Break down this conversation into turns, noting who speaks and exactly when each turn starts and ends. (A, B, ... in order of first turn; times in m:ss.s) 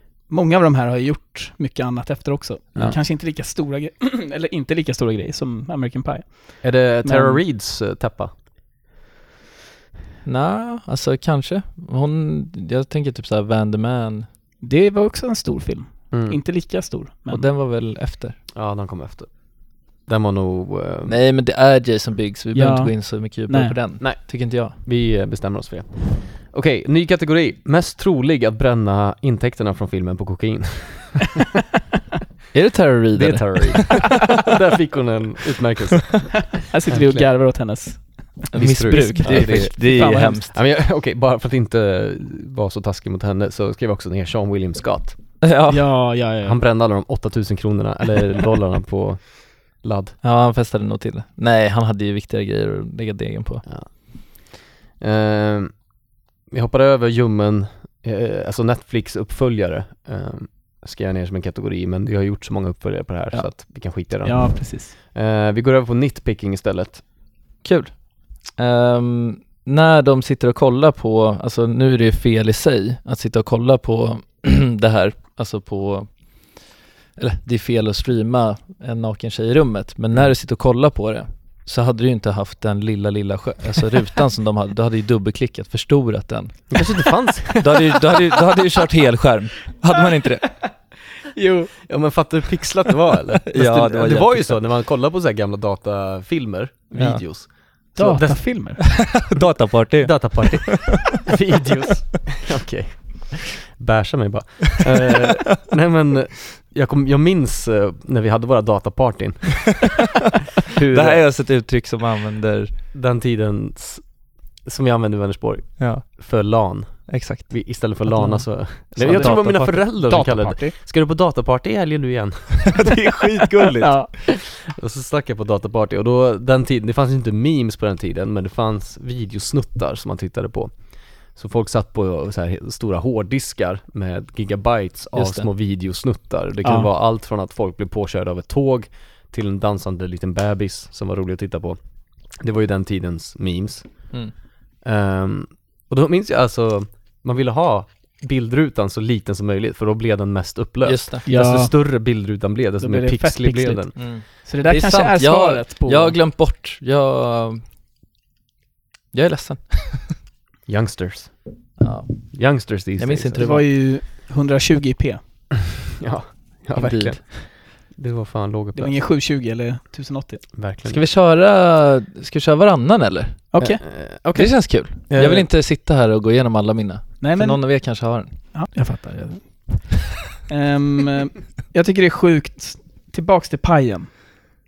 0:00.3-0:07.4 A
0:06.6-0:08.3 B
0:10.2-0:14.3 C
0:14.6-0:17.4 A
0:16.1-0:16.4 B
0:17.3-0:18.4 C
0:18.5-0:19.3 B
0:20.1-0:21.2 B
0:21.1-0:24.8 C
0:22.5-0:23.8 A
0:24.0-0:31.4 B
0:32.5-0:33.9 C
0:33.1-0:37.3 B
0:36.6-0:40.4 A
0:38.5-0:40.5 C
0:38.6-0:45.2 B
0:45.4-0:45.8 C
0:45.7-0:46.6 A
0:46.4-0:50.2 B
0:50.2-0:53.6 C
0:53.6-0:55.8 B
0:56.5-1:07.0 B
1:04.2-1:04.9 A
1:07.6-1:16.1 C
1:17.2-1:26.8 C
1:26.7-1:28.1 B
1:27.6-1:30.6 C
1:31.3-1:31.9 A
1:31.9-1:38.4 B
1:33.5-1:34.6 C
1:36.9-1:37.2 C
1:38.0-1:38.8 A
1:38.9-1:41.0 C
1:40.0-1:50.0 B
1:50.7-1:51.2 B
1:50.8-1:52.8 C
1:52.9-1:54.0 B
1:54.6-2:21.8 B
1:55.8-1:56.1 C
1:57.1-1:57.8 C
1:58.2-2:00.8 A
1:58.9-2:00.1 C
2:02.7-2:04.0 C
2:03.8-2:04.1 A
2:15.1-2:15.5 C
2:22.4-2:24.1 B
2:24.8-2:34.0 B
2:30.8-2:31.2 C
2:31.3-2:31.8 A
2:32.8-2:36.2 A
2:34.0-2:37.6 C
2:39.1-2:40.2 C
2:40.7-2:41.4 B
2:41.8-2:43.7 C
2:42.3-2:43.5 B
2:43.4-2:45.2 A
2:46.0-2:48.9 B
2:46.8-2:47.3 C
2:48.8-2:50.5 A
2:50.5-2:51.0 B
2:50.9-2:53.5 C
2:53.5-2:53.8 A
2:53.6-2:55.5 B
2:54.4-2:58.3 C
2:57.2-2:57.8 A
2:58.5-3:04.1 A